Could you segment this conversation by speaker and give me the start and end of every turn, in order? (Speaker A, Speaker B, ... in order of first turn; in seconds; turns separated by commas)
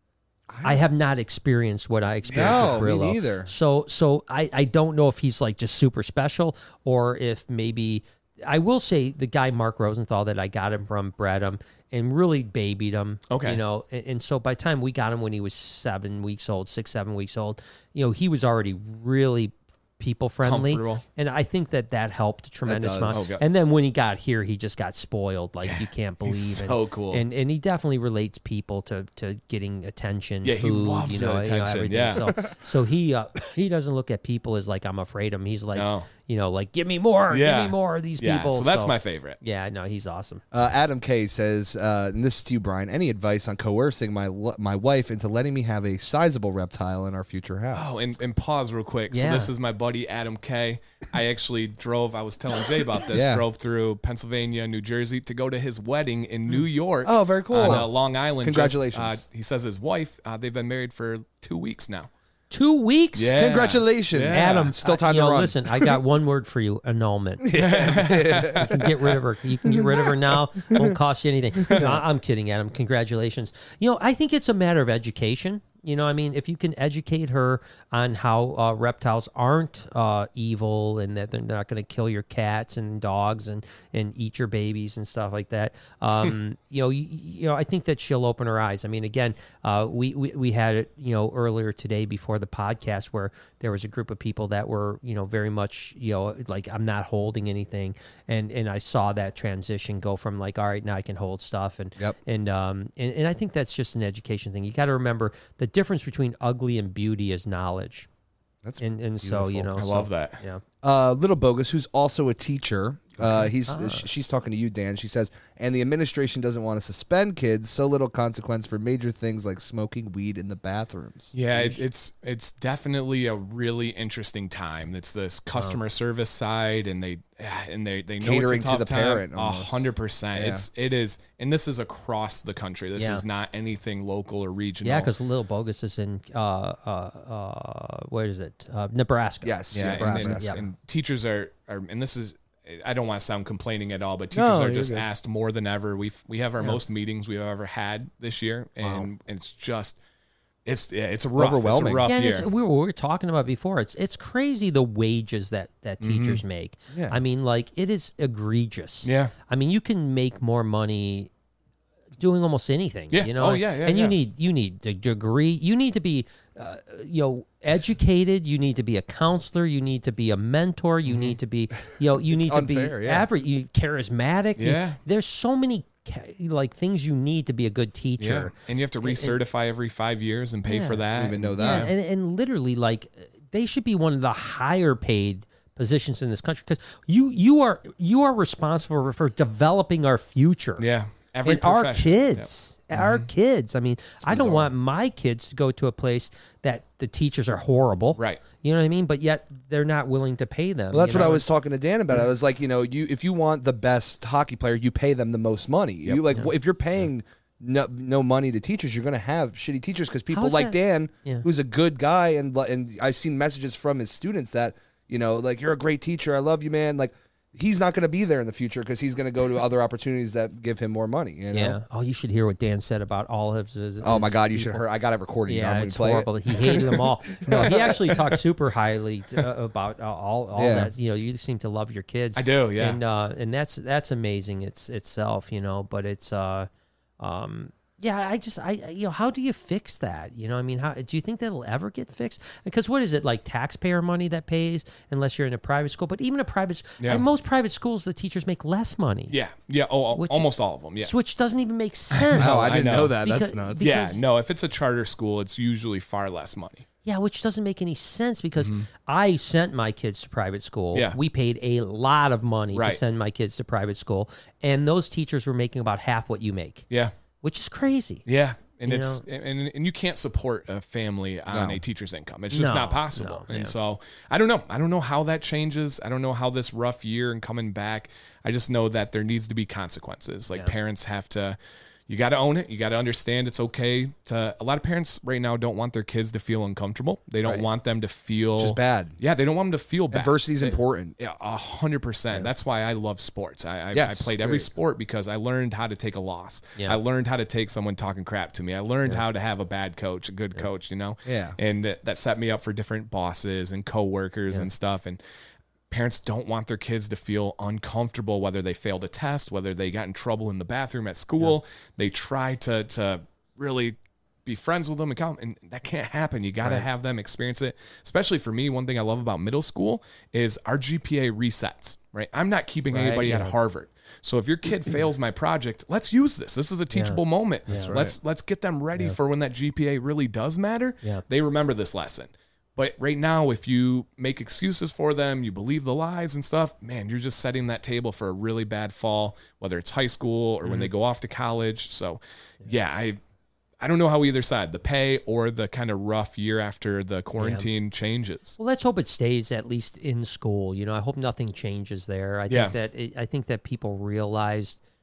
Speaker A: 0.5-0.8, Speaker B: 0.6-40.4, Speaker C: 2.3-2.9, Speaker A: 2.3-3.5, Speaker C: 13.3-13.6, Speaker C: 20.4-21.0, Speaker A: 22.7-23.2, Speaker C: 23.1-23.4, Speaker C: 25.7-27.2, Speaker C: 30.4-32.4, Speaker C: 35.8-36.1, Speaker C: 37.3-39.4, Speaker A: 40.5-48.0, Speaker C: 47.7-62.1, Speaker B: 49.1-49.5, Speaker A: 53.1-53.5, Speaker A: 57.0-59.2, Speaker B: 62.5-63.6, Speaker C: 63.1-64.7, Speaker A: 63.4-66.0, Speaker B: 64.3-108.1, Speaker A: 67.4-68.9, Speaker C: 67.5-68.9, Speaker A: 69.6-70.1, Speaker A: 70.7-71.0, Speaker A: 71.6-72.0, Speaker A: 108.6-109.8, Speaker B: 108.8-110.6, Speaker C: 109.8-110.4, Speaker A: 110.8-121.8, Speaker B: 113.2-114.1, Speaker C: 121.3-135.1, Speaker A: 128.2-130.7, Speaker B: 133.0-133.2, Speaker B: 134.8-140.6, Speaker A: 139.4-140.6, Speaker C: 139.7-150.0, Speaker A: 144.3-145.1, Speaker B: 148.8-149.1, Speaker C: 150.7-152.5, Speaker A: 151.4-152.1, Speaker B: 152.0-161.3, Speaker C: 156.0-156.4, Speaker C: 159.1-159.3, Speaker B: 162.2-179.3, Speaker C: 163.1-164.2, Speaker C: 171.1-171.3, Speaker A: 172.1-173.3, Speaker C: 174.6-175.0, Speaker C: 178.2-181.9, Speaker B: 180.7-181.1, Speaker A: 181.1-181.9, Speaker B: 181.6-190.9, Speaker C: 190.8-193.3, Speaker B: 191.4-201.4, Speaker A: 194.3-194.7, Speaker A: 200.9-221.8, Speaker B: 210.3-211.4, Speaker B: 221.5-224.8, Speaker A: 224.0-227.9, Speaker B: 225.5-236.7, Speaker A: 230.6-230.9, Speaker C: 232.3-233.0, Speaker B: 237.2-249.4, Speaker C: 249.3-251.1, Speaker B: 250.1-250.5, Speaker B: 251.0-254.2, Speaker C: 252.1-253.2, Speaker A: 252.4-253.9, Speaker C: 253.8-256.9, Speaker B: 257.1-266.9, Speaker C: 258.6-258.9, Speaker C: 262.7-263.0, Speaker B: 267.4-268.2, Speaker C: 268.3-281.6, Speaker B: 268.9-269.2, Speaker A: 271.5-271.8, Speaker B: 272.5-273.8, Speaker C: 282.1-305.2, Speaker A: 288.6-289.2, Speaker A: 290.1-291.1, Speaker A: 293.9-294.7, Speaker A: 301.3-301.6, Speaker C: 305.9-343.2, Speaker B: 322.9-323.6, Speaker B: 326.9-328.0, Speaker A: 327.7-328.1, Speaker B: 340.6-340.9, Speaker C: 343.8-348.6, Speaker B: 347.4-347.7, Speaker B: 348.6-354.8, Speaker C: 352.5-352.8